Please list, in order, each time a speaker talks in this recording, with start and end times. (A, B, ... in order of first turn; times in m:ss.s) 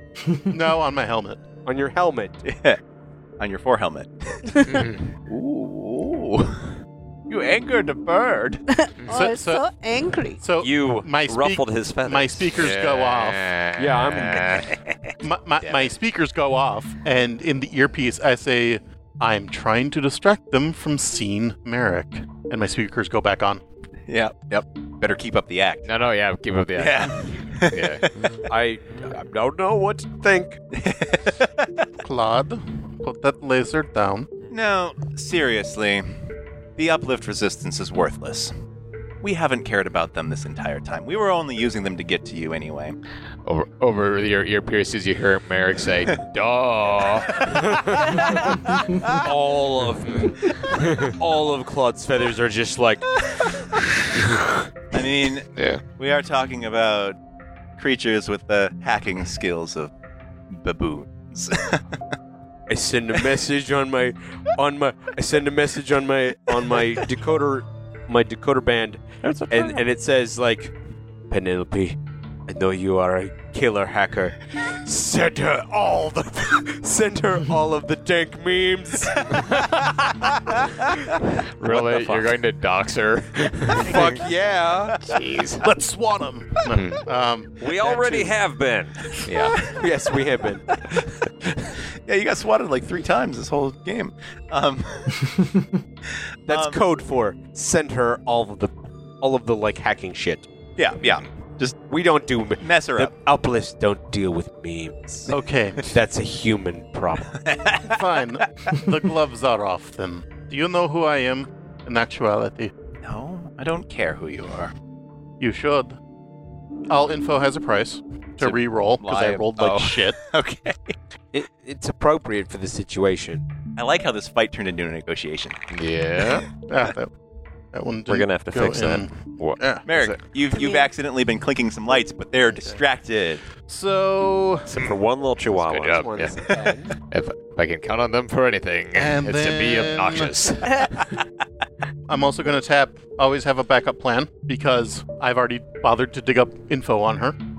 0:00.5-0:01.4 A
0:01.7-0:02.4 B
0:02.4-0:02.8 C
0:03.4-0:04.5 C
0:04.5-0:04.9 D
0:04.7-0:05.1 E
0:05.3-0:08.6 C
0:08.7-0:10.4 D
0:09.1-0:09.6 A
0:10.4-0:13.5 A
0:10.6-0:12.5 F
0:12.6-0:14.8 E
0:13.8-0:14.4 B
0:15.2-0:23.6 A
0:15.6-0:15.9 E
0:24.1-0:25.9 C
0:25.9-0:28.0 E
0:26.8-0:28.4 C
0:28.5-0:30.6 B
0:30.7-0:31.9 C
0:32.0-0:34.3 A
0:34.5-0:36.2 C
0:36.8-0:38.5 C
0:39.2-0:43.0 C
0:43.5-0:48.4 E
0:48.2-0:49.2 C
0:49.1-0:53.2 B
0:54.9-0:57.2 C
0:55.6-0:55.8 E
0:57.8-0:59.9 C
1:00.5-1:02.0 C
1:02.7-1:10.7 B
1:09.2-1:09.8 F
1:11.3-1:19.6 B
1:19.4-1:19.8 E
1:20.3-1:20.6 B
1:21.6-1:24.2 E
1:21.9-1:22.2 F
1:23.7-1:25.0 B
1:25.1-1:25.7 E
1:25.6-1:27.5 A
1:26.7-1:27.0 E
1:27.6-1:29.2 F
1:27.8-1:28.3 B
1:29.3-1:29.6 E
1:29.6-1:30.7 B
1:32.0-1:35.3 C
1:36.5-1:36.8 C
1:36.5-1:40.5 B
1:40.8-1:41.8 C
1:41.9-1:45.3 B
1:42.6-1:43.1 C
1:45.3-1:45.8 A
1:45.9-1:47.4 B
1:47.5-1:48.4 C
1:47.8-1:52.7 A
1:53.0-1:54.7 C
1:55.4-1:56.0 A
1:56.9-2:00.2 A
1:58.4-2:01.0 C
2:01.3-2:03.4 B
2:03.8-2:05.6 C
2:05.7-2:06.5 E
2:06.7-2:07.1 A
2:07.7-2:10.2 A
2:08.1-2:09.1 F
2:09.8-2:13.4 C
2:10.5-2:10.9 D
2:13.7-2:14.7 A
2:14.7-2:16.3 F
2:15.5-2:21.1 E
2:15.7-2:16.9 B
2:18.9-2:20.4 A
2:22.1-2:27.4 A